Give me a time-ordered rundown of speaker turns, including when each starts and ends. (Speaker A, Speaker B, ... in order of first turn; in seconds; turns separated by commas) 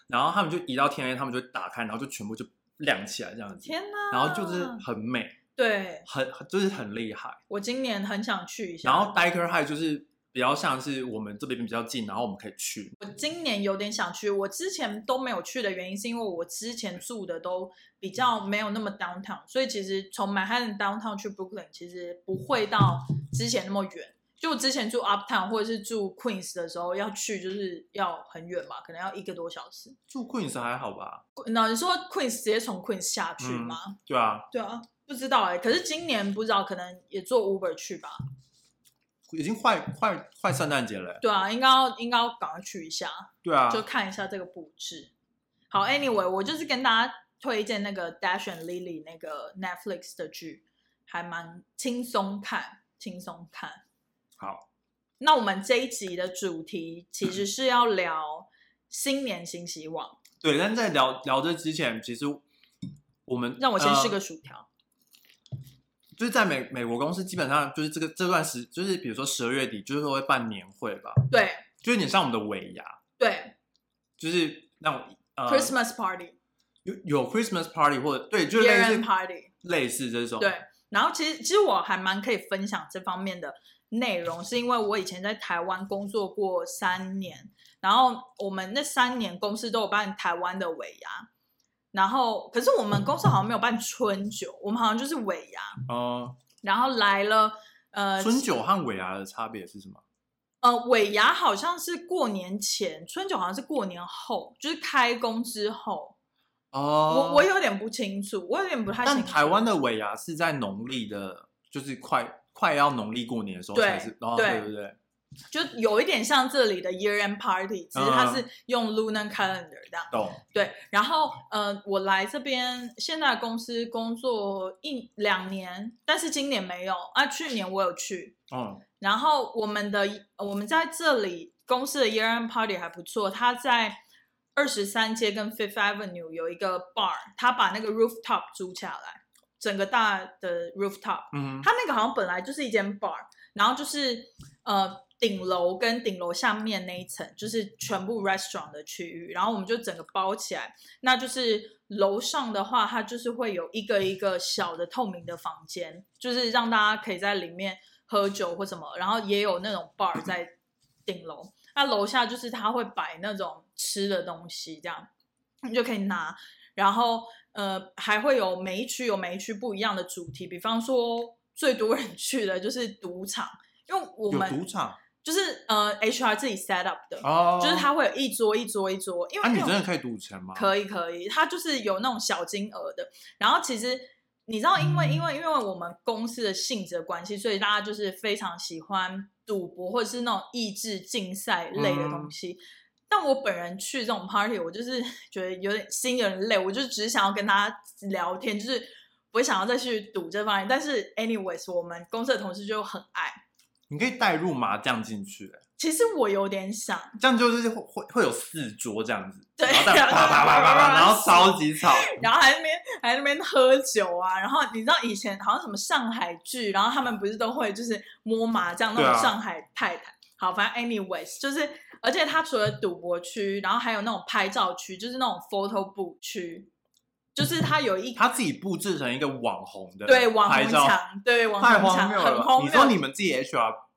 Speaker A: 0.1-5.4, Speaker B: 3.6-4.8, Speaker B: 5.6-6.1, Speaker A: 6.1-7.4, Speaker B: 7.5-9.2, Speaker A: 8.8-13.0, Speaker B: 13.0-30.0, Speaker A: 30.1-31.2, Speaker B: 31.4-34.0, Speaker A: 33.4-34.5, Speaker B: 34.5-38.2, Speaker A: 39.3-41.2, Speaker B: 41.2-45.1, Speaker A: 43.4-43.9, Speaker B: 45.7-53.8, Speaker A: 54.4-54.6, Speaker B: 55.2-60.2, Speaker A: 60.4-62.4, Speaker A: 63.3-64.2, Speaker B: 63.6-64.7, Speaker A: 66.2-71.3, Speaker B: 71.3-71.6, Speaker A: 71.8-73.0, Speaker B: 73.2-73.5, Speaker A: 74.2-75.8, Speaker B: 75.5-76.4, Speaker A: 76.8-79.1, Speaker B: 78.5-79.5, Speaker A: 79.6-80.5, Speaker B: 80.4-91.3, Speaker B: 91.9-95.8, Speaker A: 95.9-96.4, Speaker B: 96.6-98.5, Speaker A: 98.2-100.0, Speaker B: 100.6-106.2, Speaker A: 106.7-107.5, Speaker B: 107.1-109.6, Speaker A: 109.0-115.0, Speaker B: 113.8-114.7, Speaker B: 115.5-128.4, Speaker A: 117.9-118.5, Speaker A: 120.1-120.4, Speaker A: 128.5-128.8, Speaker B: 129.0-134.0, Speaker B: 134.6-165.1, Speaker A: 141.3-141.7, Speaker B: 165.6-174.6, Speaker A: 174.3-175.0, Speaker B: 175.2-179.8, Speaker A: 177.2-177.9, Speaker A: 179.4-180.7, Speaker B: 180.6-203.4, Speaker A: 191.8-192.3, Speaker A: 203.9-205.6, Speaker B: 205.8-207.2, Speaker A: 207.2-212.2, Speaker B: 209.6-226.7, Speaker A: 218.9-219.4, Speaker B: 227.3-228.2, Speaker A: 228.2-231.0, Speaker B: 230.1-233.0, Speaker A: 231.6-233.8